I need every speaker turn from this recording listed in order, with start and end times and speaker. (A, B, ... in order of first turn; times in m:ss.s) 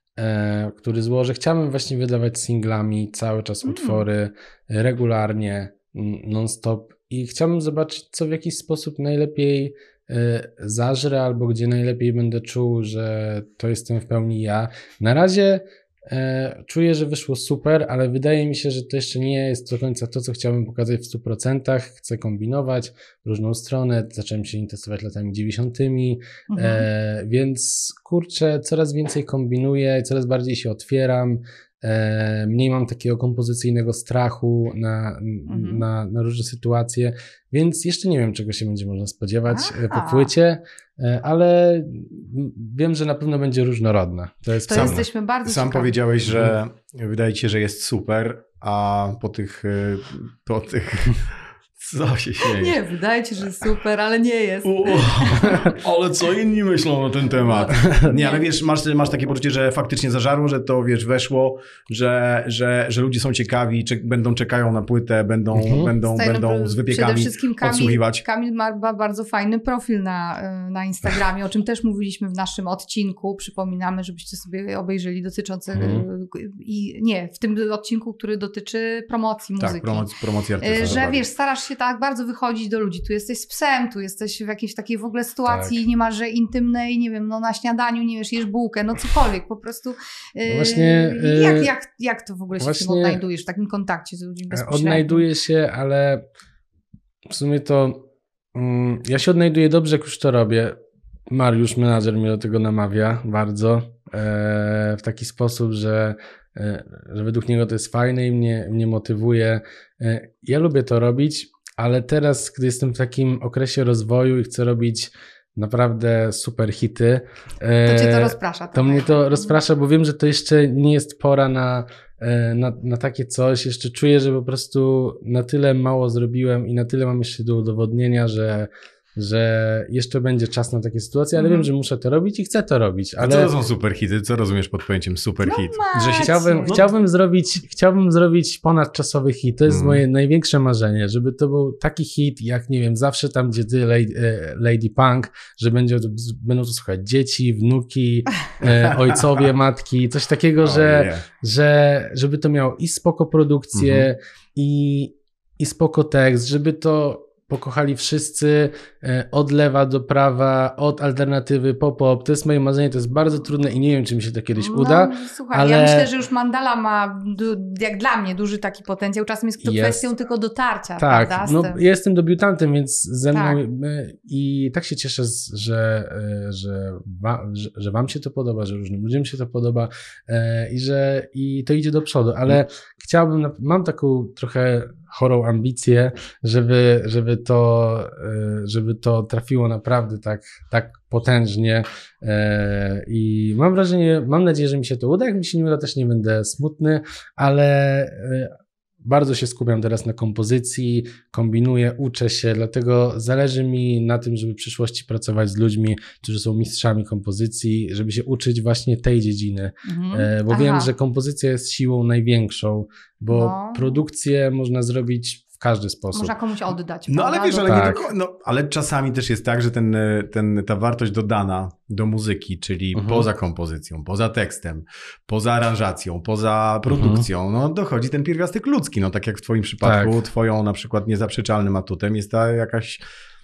0:00.2-0:45.0 A
0:03.6-0:04.1 B
0:26.5-0:26.9 B
0:35.5-0:35.8 B
0:39.5-0:40.3 B
0:44.7-0:46.0 B
0:44.7-0:52.8 C
0:46.3-0:46.6 A
0:52.4-0:55.7 B
0:54.6-1:08.2 C
0:57.8-0:58.1 A
0:58.0-0:58.4 B
1:05.6-1:05.9 A
1:06.0-1:20.1 B
1:15.7-1:16.0 A
1:19.6-1:21.3 C
1:20.6-1:35.2 B
1:25.5-1:25.8 A
1:30.5-1:31.7 A
1:32.6-1:33.2 A
1:34.5-1:36.2 A
1:37.3-1:40.8 A
1:41.3-2:13.5 A
1:57.8-1:59.6 B
2:11.4-2:11.7 B
2:13.2-2:16.9 C
2:15.4-2:16.8 B
2:16.2-2:46.1 A
2:19.7-2:20.0 C
2:28.6-2:29.2 C
2:30.6-2:31.2 C
2:33.8-2:34.1 C
2:44.6-2:51.8 B
2:49.6-2:50.1 A
2:51.0-3:36.3 A
2:53.3-2:53.6 B
3:29.8-3:30.9 B
3:33.3-3:34.0 B
3:36.1-3:37.9 B
3:37.1-3:53.0 C
3:37.6-3:38.0 A
3:43.0-3:43.3 A
3:46.9-3:47.3 A
3:49.8-3:50.2 A